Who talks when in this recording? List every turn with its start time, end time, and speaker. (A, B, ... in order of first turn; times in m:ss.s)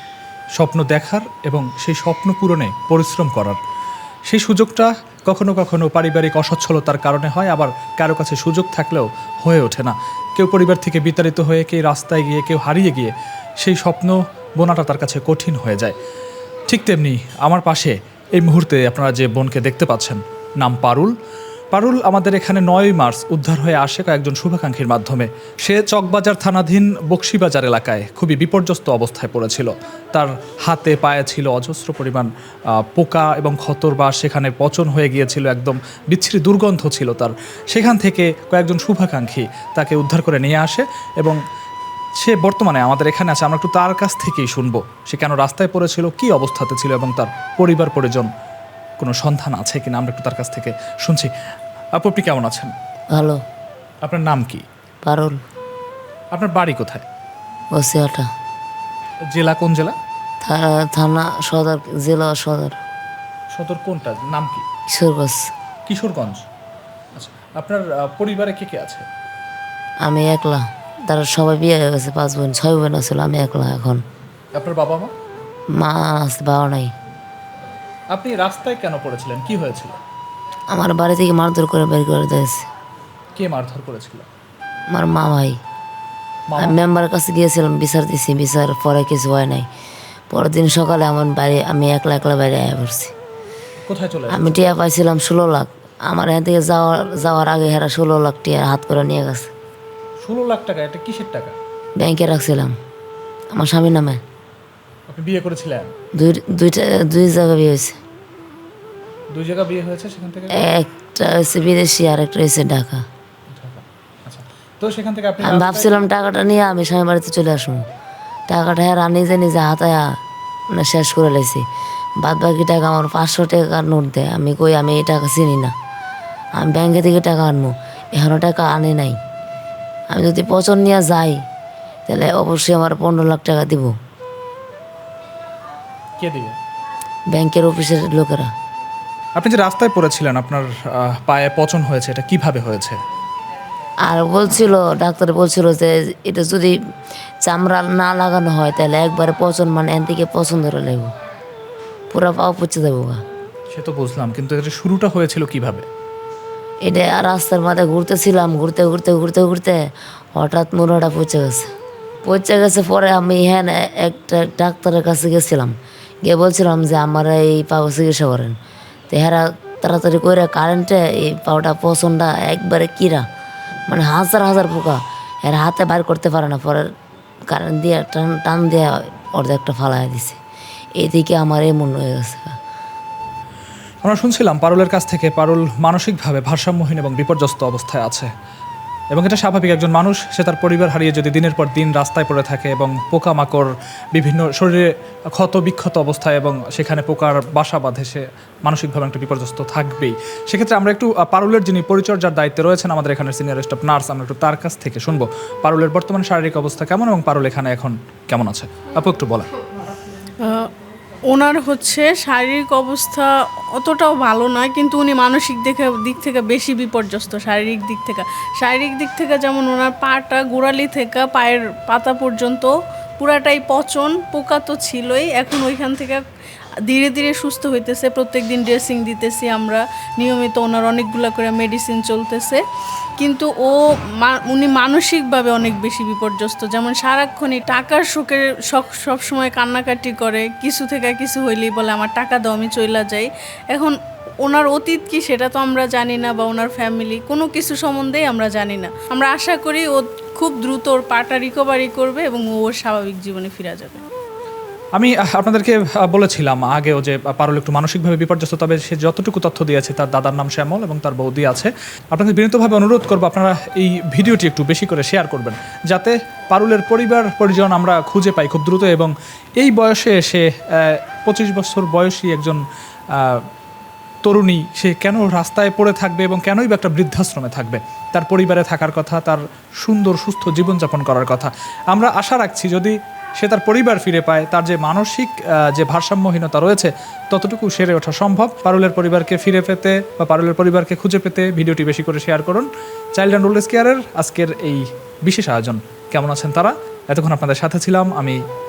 0:00.6-0:03.6 A
0:04.3-0:16.0 A
0:16.7-0:21.1 A
0:21.7-0:41.4 A
0:42.2-0:48.3 A
0:49.0-0:51.3 A
0:52.0-0:52.7 A
0:53.1-0:53.4 B
0:54.0-0:54.6 A
0:55.0-0:55.4 B
0:56.3-0:57.0 A
0:57.7-0:58.3 B
0:59.3-0:59.9 A
1:00.4-1:02.8 B
1:03.5-1:04.6 A
1:04.9-1:05.5 B
1:05.9-1:06.4 A
1:07.2-1:09.0 A
1:10.0-1:14.0 B
1:14.5-1:15.1 A
1:15.7-1:16.9 B
1:18.1-1:19.9 A
1:20.7-1:22.7 B
1:23.4-1:24.3 A
1:24.9-1:25.6 B
1:26.5-1:26.8 A
1:26.6-1:29.7 B
1:30.3-1:33.1 B
1:33.8-1:34.6 A
1:34.3-1:39.5 B
1:40.2-1:41.6 A
1:42.0-1:42.7 B
1:43.5-1:44.2 B
1:45.1-1:45.9 A
1:46.2-1:48.0 B
1:49.3-1:50.6 A
1:50.5-1:53.0 B
1:53.5-1:56.0 A
1:55.4-1:57.8 B
1:58.5-2:00.2 B
2:00.7-2:01.6 B
2:02.2-2:05.7 B
2:06.6-2:09.2 B
2:10.1-2:11.4 B
2:12.1-2:13.9 B
2:16.2-2:16.5 A
2:17.3-2:18.5 B
2:19.4-2:23.0 A
2:24.0-2:26.7 B
2:27.4-2:31.1 B
2:32.1-2:33.2 B
2:33.7-2:35.9 A
2:36.8-2:41.7 B
2:42.2-2:48.5 B
2:49.1-2:53.2 B
2:53.9-2:56.9 B
2:57.5-3:00.4 B
3:01.0-3:02.6 B
3:04.0-3:08.3 A
3:09.1-3:29.5 A
3:30.4-3:30.7 C
3:31.3-3:46.2 C
3:46.9-3:52.6 C
3:53.2-4:14.0 C
4:14.9-4:33.4 A
4:34.2-4:58.4 A